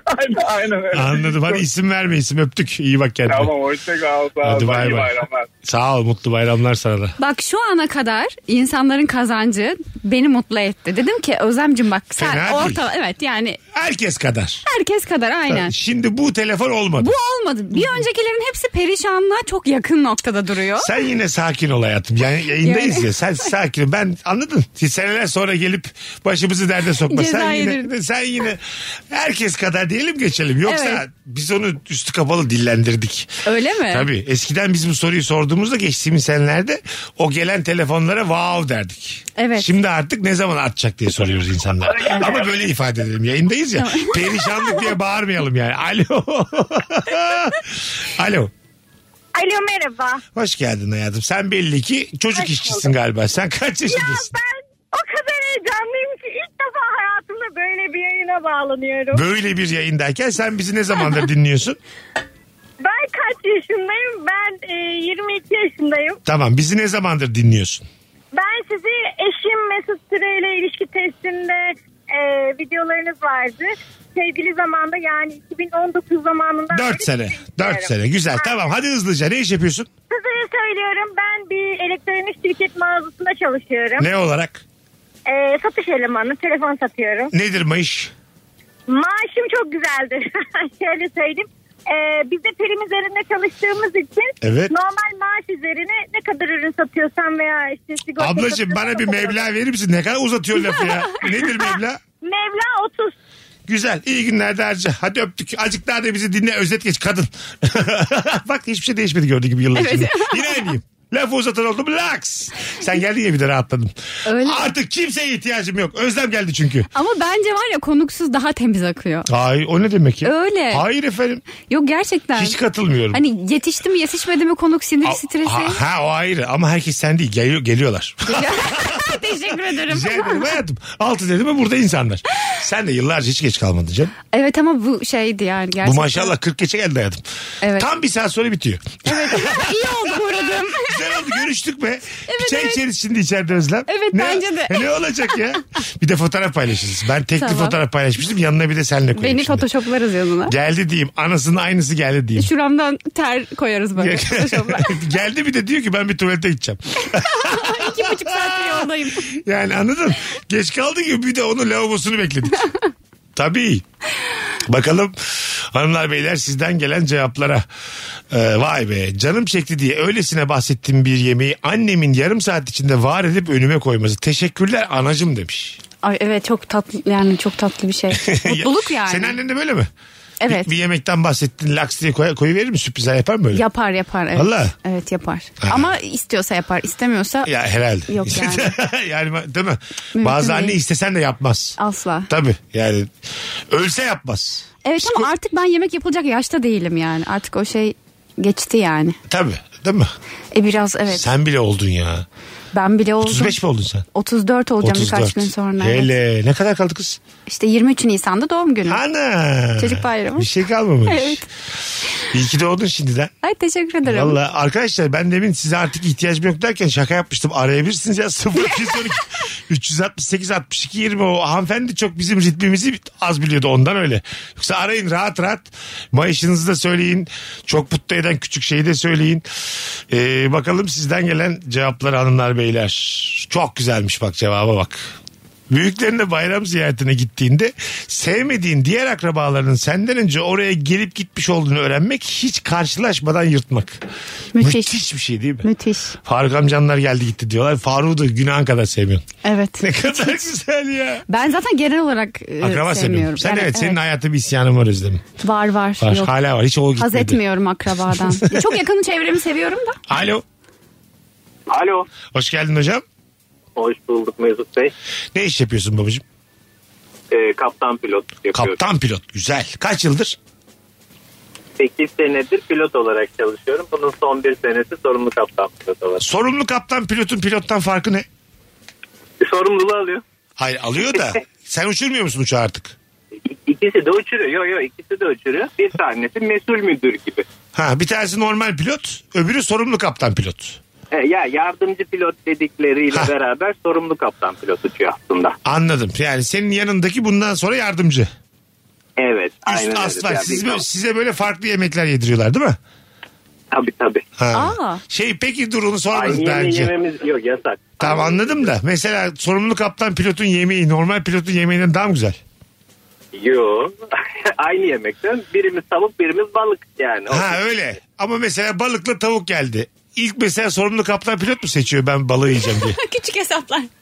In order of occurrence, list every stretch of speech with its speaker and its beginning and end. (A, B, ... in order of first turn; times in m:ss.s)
0:00.1-0:01.6 A
0:00.9-0:03.5 B
0:03.3-0:05.5 A
0:04.4-0:07.2 B
0:07.2-0:13.6 C
0:12.2-0:12.8 B
0:13.7-0:14.6 B
0:14.7-0:15.7 C
0:15.5-0:17.1 B
0:17.0-0:20.9 C
0:17.7-0:18.0 B
0:20.8-0:33.3 B
0:22.6-0:23.1 C
0:27.1-0:27.9 C
0:30.6-0:31.0 C
0:33.5-0:34.1 C
0:33.9-0:48.5 B
0:39.4-0:39.7 C
0:43.8-0:44.2 C
0:49.4-0:50.2 D
0:50.4-0:54.3 B
0:52.3-0:52.9 D
0:53.9-0:59.2 D
0:59.1-1:01.8 B
1:02.8-1:06.2 D
1:06.2-1:07.9 B
1:08.3-1:18.7 D
1:16.7-1:19.9 B
1:20.1-1:24.1 D
1:24.0-1:24.6 B
1:25.3-1:27.3 D
1:27.3-1:28.1 B
1:28.9-1:39.4 D
1:34.4-1:34.7 B
1:38.2-1:42.0 B
1:42.2-1:43.1 D
1:43.7-1:56.9 B
1:49.8-1:50.7 C
1:54.3-1:54.6 C
1:57.0-1:59.3 C
1:59.3-2:01.5 B
2:00.2-2:00.8 C
2:01.5-2:02.6 C
2:02.4-2:03.2 B
2:03.1-2:05.8 C
2:05.0-2:09.2 B
2:08.3-2:10.5 C
2:09.9-2:14.1 B
2:14.3-2:16.3 C
2:15.8-2:17.2 B
2:17.6-2:17.9 C
2:17.8-2:20.2 B
2:19.1-2:21.0 C
2:20.8-2:29.7 B
2:22.3-2:22.8 C
2:23.9-2:24.9 C
2:27.4-2:27.8 C
2:29.2-2:30.5 C
2:30.5-2:32.5 B
2:32.4-2:35.0 C
2:34.0-2:42.6 B
2:37.2-2:39.2 C
2:43.4-2:43.8 B
2:44.7-2:47.6 B
2:48.3-2:55.8 B
2:56.0-2:59.4 C
2:58.2-2:59.9 B
3:00.4-3:00.7 C
3:00.5-3:03.6 B
3:03.5-3:07.5 C
3:04.4-3:04.7 B
3:05.6-3:05.9 B
3:07.4-3:11.8 B
3:08.1-3:08.7 C
3:10.2-3:10.8 C
3:11.8-3:12.3 C
3:12.3-3:13.1 B
3:13.7-3:15.3 B
3:14.8-3:19.2 C
3:19.3-3:20.1 B
3:20.5-3:21.2 C
3:21.1-3:22.3 B
3:22.7-3:23.6 C
3:23.2-3:24.1 B
3:24.2-3:26.1 C
3:24.8-3:27.2 B
3:27.5-3:29.0 C
3:28.9-3:31.4 B
3:29.8-3:30.5 C
3:31.1-3:31.4 C
3:32.3-3:33.3 B
3:33.4-3:34.4 C
3:34.0-3:49.4 B
3:50.1-3:55.2 B
3:55.7-4:04.0 B
4:04.6-4:05.0 C
4:04.6-4:05.7 B
4:05.6-4:06.2 C
4:06.2-4:09.3 B
4:09.4-4:10.3 C
4:09.8-4:11.2 B
4:11.3-4:14.0 C
4:12.6-4:15.3 B
4:15.4-4:16.3 C
4:16.0-4:17.4 B
4:17.0-4:20.0 C
4:18.1-4:18.7 B
4:20.1-4:20.4 B
4:21.7-4:22.1 E
4:22.3-4:23.0 B
4:23.8-4:24.9 E
4:25.4-4:26.2 B
4:27.3-4:28.8 E
4:28.5-4:30.4 B
4:31.8-4:36.2 E
4:36.2-4:38.3 B
4:39.4-4:40.2 E
4:40.6-4:43.0 B
4:43.5-4:47.5 E
4:47.7-4:50.8 B
4:51.1-4:55.6 E
4:55.6-4:58.3 B
4:59.2-5:00.8 E
4:59.6-5:02.8 B
5:03.7-5:04.2 E
5:04.4-5:06.9 B
5:04.5-5:05.0 C
5:06.1-5:08.7 E
5:08.0-5:12.4 B
5:13.3-5:14.0 E
5:14.5-5:17.6 E
5:17.3-5:23.0 B
5:22.7-5:23.9 C